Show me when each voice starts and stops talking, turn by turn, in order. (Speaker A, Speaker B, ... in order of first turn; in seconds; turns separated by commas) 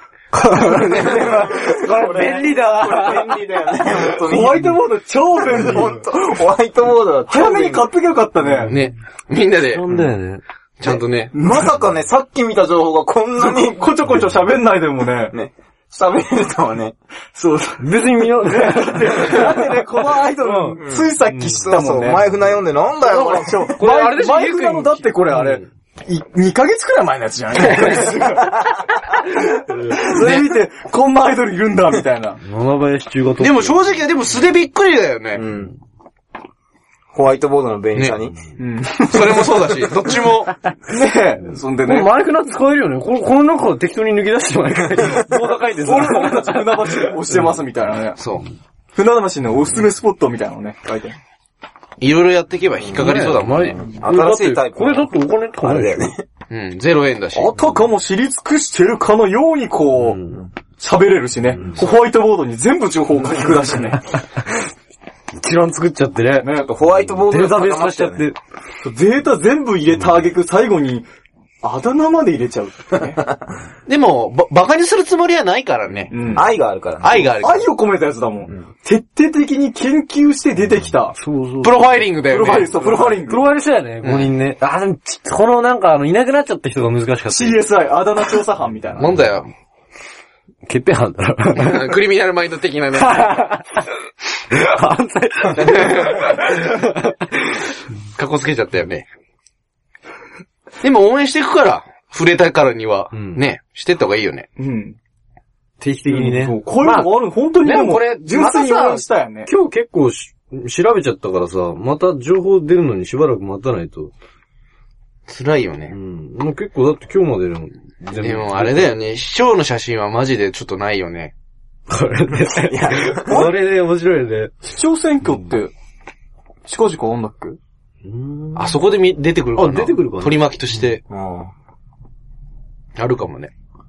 Speaker A: 0.3-3.8, Speaker B: 0.8-1.4, Speaker C: 1.4-4.7, Speaker D: 4.2-6.0, Speaker C: 5.4-7.9, Speaker D: 7.3-8.8, Speaker A: 8.4-8.9, Speaker B: 8.7-10.1, Speaker A: 9.6-10.4, Speaker B: 10.8-11.3, Speaker C: 10.9-13.9, Speaker D: 11.3-11.8, Speaker D: 13.4-15.3, Speaker C: 15.3-16.9, Speaker D: 17.3-17.9, Speaker A: 17.8-19.9, Speaker D: 18.4-22.2, Speaker B: 19.2-19.5, Speaker A: 20.4-21.7, Speaker C: 20.7-23.7, Speaker D: 23.0-32.4, Speaker A: 23.8-25.6, Speaker B: 27.7-28.1, Speaker A: 29.7-30.0, Speaker B: 30.1-30.5, Speaker A: 32.4-34.0, Speaker B: 33.4-35.4, Speaker C: 35.3-35.7, Speaker C: 37.1-38.4, Speaker D: 38.6-39.6, Speaker B: 38.9-40.5, Speaker D: 40.9-42.2, Speaker A: 41.8-47.6, Speaker D: 45.3-48.2, Speaker B: 48.2-48.4, Speaker D: 48.9-51.2, Speaker B: 52.0-53.8, Speaker A: 52.9-56.1, Speaker C: 53.8-56.2, Speaker B: 56.5-57.5, Speaker D: 57.3-60.2, Speaker A: 60.0-60.4, Speaker D: 60.8-64.0, Speaker A: 61.6-61.8, Speaker A: 65.3-68.4, Speaker C: 66.5-68.3, Speaker D: 68.8-71.0, Speaker D: 71.6-73.3, Speaker B: 73.9-76.1, Speaker D: 76.1-76.5, Speaker C: 76.3-77.3, Speaker B: 77.0-77.6, Speaker D: 77.4-81.2, Speaker A: 81.1-87.7, Speaker B: 81.6-82.7, Speaker D: 82.3-83.5, Speaker B: 84.0-84.3, Speaker D: 87.3-89.1, Speaker B: 89.0-89.5, Speaker A: 90.6-92.0, Speaker B: 91.5-93.3, Speaker A: 92.9-93.9, Speaker A: 94.5-97.8, Speaker B: 95.6-96.3, Speaker B: 98.2-99.1, Speaker B: 100.8-104.5, Speaker A: 103.1-103.5, Speaker D: 104.6-105.0, Speaker A: 105.8-107.2, Speaker D: 106.1-109.5, Speaker B: 107.6-109.0, Speaker A: 109.4-114.1, Speaker B: 115.3-115.9, Speaker A: 115.9-119.0, Speaker B: 118.1-121.3, Speaker A: 121.9-124.5, Speaker C: 122.6-123.5, Speaker D: 124.6-125.7, Speaker A: 125.2-125.5, Speaker D: 126.7-127.6, Speaker A: 128.0-128.8, Speaker B: 128.5-131.0, Speaker A: 129.5-130.9, Speaker C: 131.1-131.5, Speaker B: 133.0-133.5